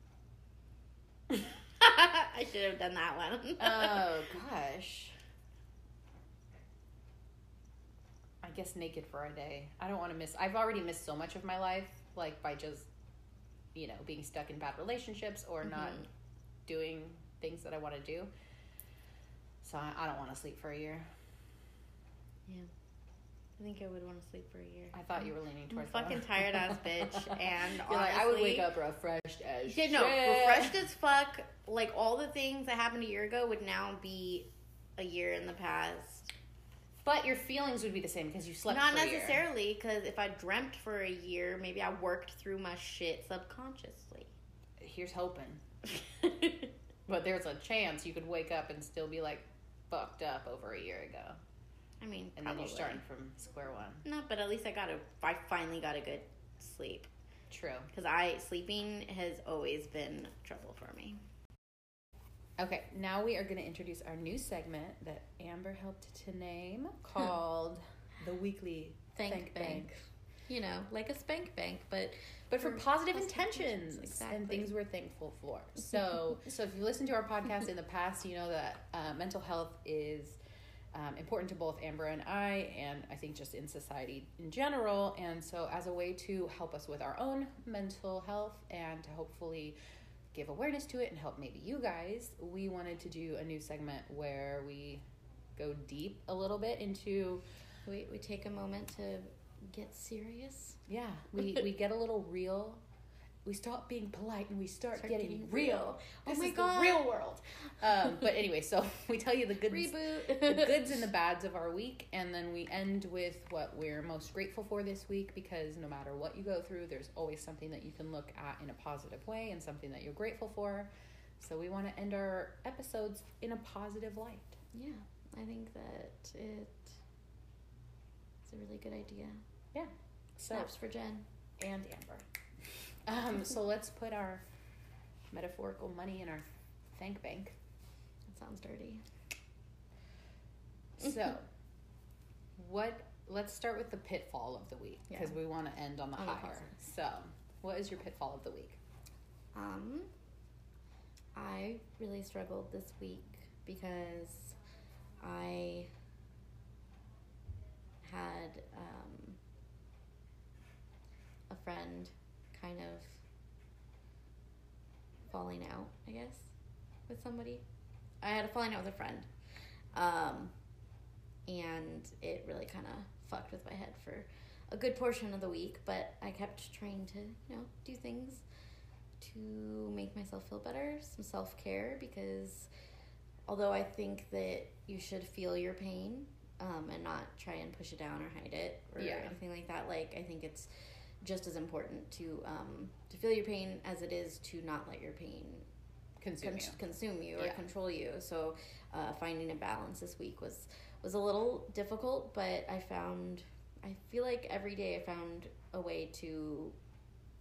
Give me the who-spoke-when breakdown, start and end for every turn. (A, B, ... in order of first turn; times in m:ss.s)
0:01.8-0:04.2 A
0:03.6-0:05.2 B
0:08.4-0:12.9 B
0:13.8-0:16.1 B
0:16.7-0:18.3 B
0:19.6-0:21.1 B
0:23.6-0:28.7 A
0:24.9-0:30.8 B
0:29.7-0:36.3 A
0:37.0-0:39.4 B
0:38.7-0:44.3 A
0:44.8-0:45.6 B
0:46.0-0:46.7 A
0:47.1-0:51.4 B
0:52.0-0:53.0 A
0:52.4-0:54.0 B
0:54.0-0:57.1 A
0:57.5-0:57.9 B
0:57.9-1:01.2 A
1:02.6-1:09.9 B
1:09.2-1:14.7 A
1:12.5-1:20.4 B
1:20.9-1:29.8 B
1:30.3-1:35.0 B
1:35.6-1:37.4 B
1:37.9-1:40.8 A
1:40.9-1:42.8 B
1:43.4-2:04.6 B
1:45.0-1:47.4 A
1:49.7-1:50.9 A
2:04.7-2:07.0 A
2:08.4-2:09.4 A
2:09.7-2:10.7 B
2:10.5-2:11.2 A
2:11.6-2:12.2 B
2:13.1-2:14.4 B
2:15.3-2:17.6 B
2:18.3-2:19.0 A
2:21.0-2:21.5 B
2:22.6-2:28.8 B
2:26.2-2:26.8 A
2:29.5-2:30.1 A
2:31.4-2:34.6 A
2:35.2-2:35.9 A
2:38.0-2:39.4 A
2:41.5-2:43.2 A
2:45.3-2:46.5 A
2:47.1-2:47.6 A
2:48.2-2:49.3 A
2:49.9-2:50.5 A
2:51.5-2:58.4 A
2:59.2-3:02.7 A
3:03.5-3:10.7 A
3:09.0-3:09.3 B
3:11.2-3:15.7 A
3:16.2-3:16.8 B
3:16.4-3:26.8 A